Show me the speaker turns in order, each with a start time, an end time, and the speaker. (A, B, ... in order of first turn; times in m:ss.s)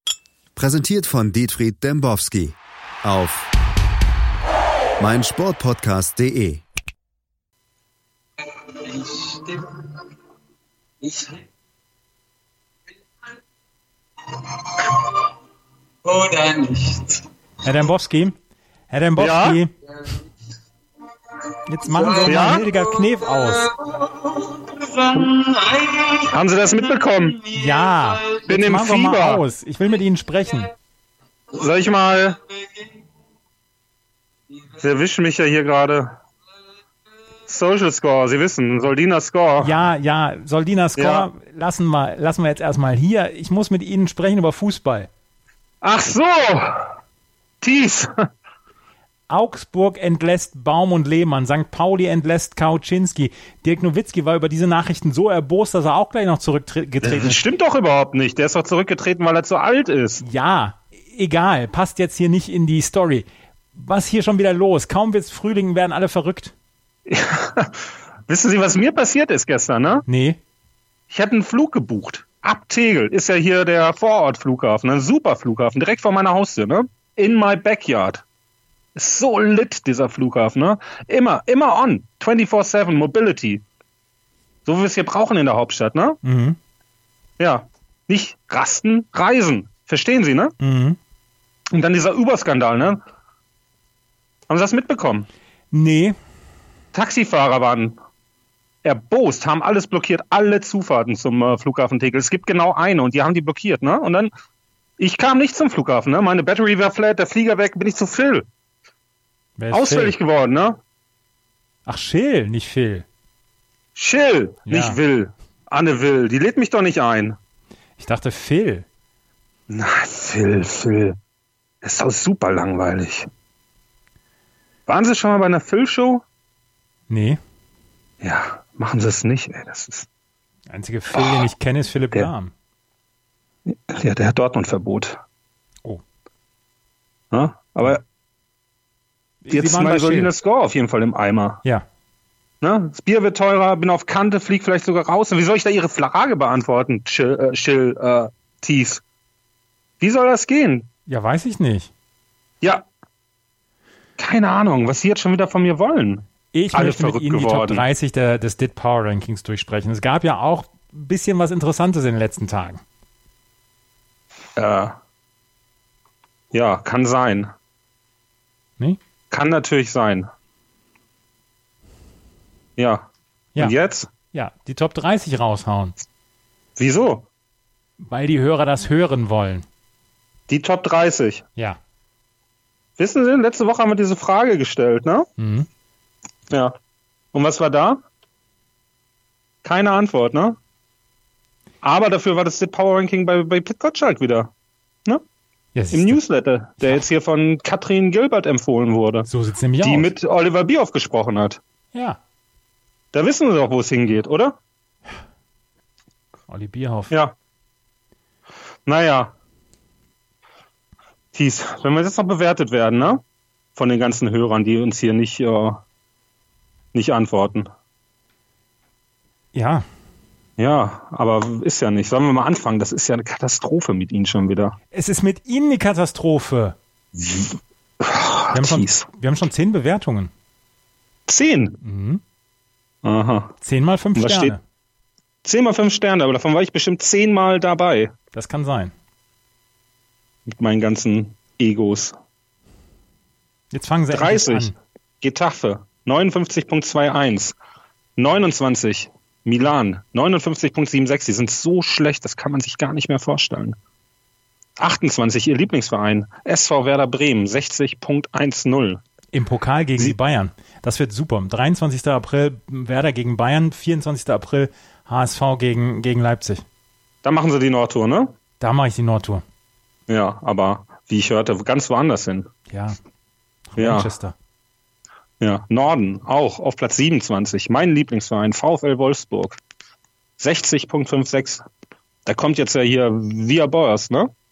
0:00.5-0:03.5 A
0:05.0-0:06.6 A
0:08.6-0:09.9 B
0:11.0-0:11.4 B
0:14.3-0:15.2 B
0:16.0-0:17.2 B
0:17.6-0:18.4 C
0:18.9-0:19.7 C
0:19.2-0:19.6 D
0:21.7-0:23.7 C
0:21.9-0:22.9 B
0:22.2-0:22.6 D
0:23.4-0:26.3 B
0:26.3-0:27.4 D
0:26.8-0:28.3 B
0:27.5-0:30.7 C
0:28.5-0:29.4 D
0:31.5-0:32.4 D
0:34.8-0:36.2 D
0:37.5-0:39.8 D
0:39.6-0:45.1 C
0:41.0-0:41.3 D
0:45.8-0:46.9 D
0:47.6-0:48.1 D
0:49.3-0:57.4 C
0:57.0-1:00.2 D
1:00.2-1:06.5 C
1:07.1-1:10.0 D
1:10.1-1:10.4 C
1:11.1-1:18.2 D
1:19.0-1:23.6 D
1:24.6-1:26.2 D
1:26.2-1:26.6 C
1:27.4-1:30.5 D
1:30.6-1:31.0 C
1:31.7-1:33.0 D
1:34.5-1:35.3 D
1:35.7-1:36.2 C
1:36.9-1:38.0 D
1:38.8-1:44.3 D
1:45.0-1:48.4 D
1:49.6-1:50.1 C
1:49.7-1:50.8 D
1:51.8-1:53.0 C
1:54.0-1:57.4 D
1:54.7-1:55.0 C
1:58.0-1:58.8 C
1:59.7-2:01.2 D
2:01.8-2:03.3 D
2:04.9-2:06.2 D
2:07.1-2:07.4 C
2:08.2-2:10.1 D
2:10.7-2:12.5 C
2:11.1-2:11.5 D
2:13.6-2:15.2 D
2:17.3-2:18.0 D
2:19.4-2:20.3 C
2:19.5-2:21.6 D
2:22.6-2:29.0 D
2:30.0-2:30.9 D
2:31.1-2:31.9 C
2:34.2-2:37.8 D
2:36.5-2:42.8 C
2:44.6-2:45.0 D
2:46.5-2:47.5 D
2:49.3-2:50.3 D
2:52.8-2:53.1 D
2:53.6-2:54.1 D
2:54.3-2:55.9 C
2:56.8-2:57.2 D
2:58.0-2:59.6 C
3:00.5-3:01.4 D
3:03.0-3:05.3 D
3:05.4-3:05.7 C
3:07.3-3:08.0 D
3:09.6-3:10.6 D
3:11.8-3:14.5 D
3:15.7-3:16.2 C
3:15.9-3:19.3 D
3:19.3-3:20.1 C
3:19.8-3:21.6 D
3:21.9-3:22.2 C
3:23.1-3:24.5 D
3:26.5-3:27.1 C
3:28.8-3:29.3 D
3:31.3-3:33.2 D
3:33.8-3:35.8 D
3:36.9-3:37.7 D
3:39.5-3:39.8 C
3:40.6-3:44.8 D
3:44.9-3:46.8 C
3:47.1-3:49.1 D
3:48.5-3:50.3 C
3:51.3-3:51.8 D
3:51.8-3:52.2 C
3:53.0-3:53.5 D
3:53.6-3:54.6 C
3:54.2-3:54.5 D
3:55.4-3:58.1 D
3:58.3-3:58.9 C
4:00.5-4:02.2 D
4:03.7-4:04.7 C
4:04.1-4:07.5 D
4:08.2-4:13.8 D
4:14.8-4:19.0 D
4:19.3-4:26.6 C
4:27.2-4:28.3 D
4:28.6-4:29.4 C
4:30.1-4:32.5 D
4:32.7-4:33.0 C
4:33.7-4:34.3 C
4:33.8-4:34.1 D
4:35.4-4:39.6 D
4:40.4-4:41.6 D
4:42.2-4:44.3 D